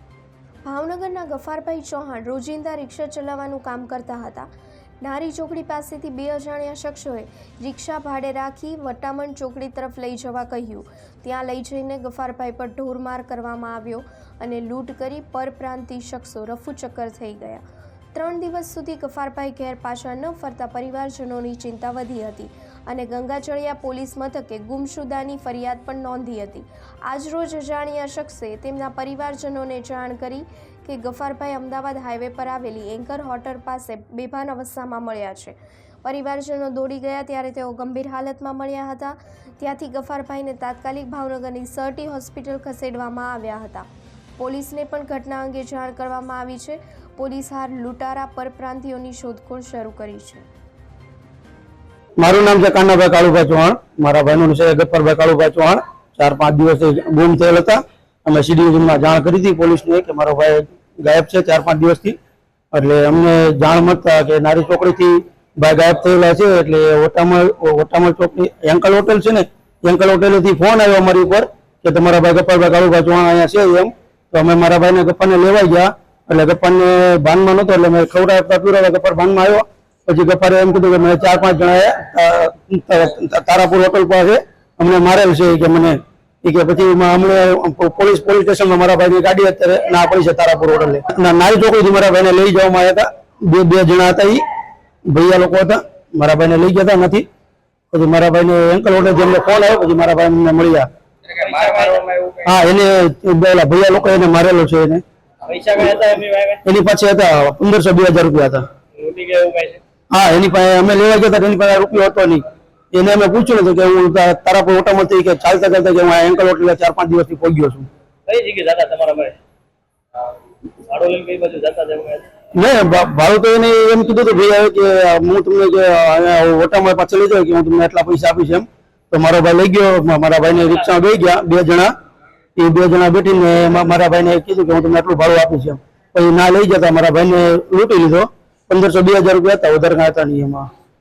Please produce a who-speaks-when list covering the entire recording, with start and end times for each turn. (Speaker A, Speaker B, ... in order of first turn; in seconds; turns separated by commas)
Speaker A: 0.6-4.5, Speaker A: 5.0-17.6, Speaker A: 18.1-43.9, Speaker A: 44.4-50.5, Speaker B: 52.2-62.2, Speaker B: 62.7-94.4, Speaker B: 95.1-97.2, Speaker B: 97.9-100.9, Speaker C: 101.3-102.5, Speaker B: 102.4-105.0, Speaker C: 105.4-106.6, Speaker B: 106.6-108.7, Speaker C: 108.9-109.8, Speaker B: 110.1-117.9, Speaker C: 118.3-119.3, Speaker C: 120.9-122.2, Speaker B: 122.5-131.9, Speaker B: 132.6-140.7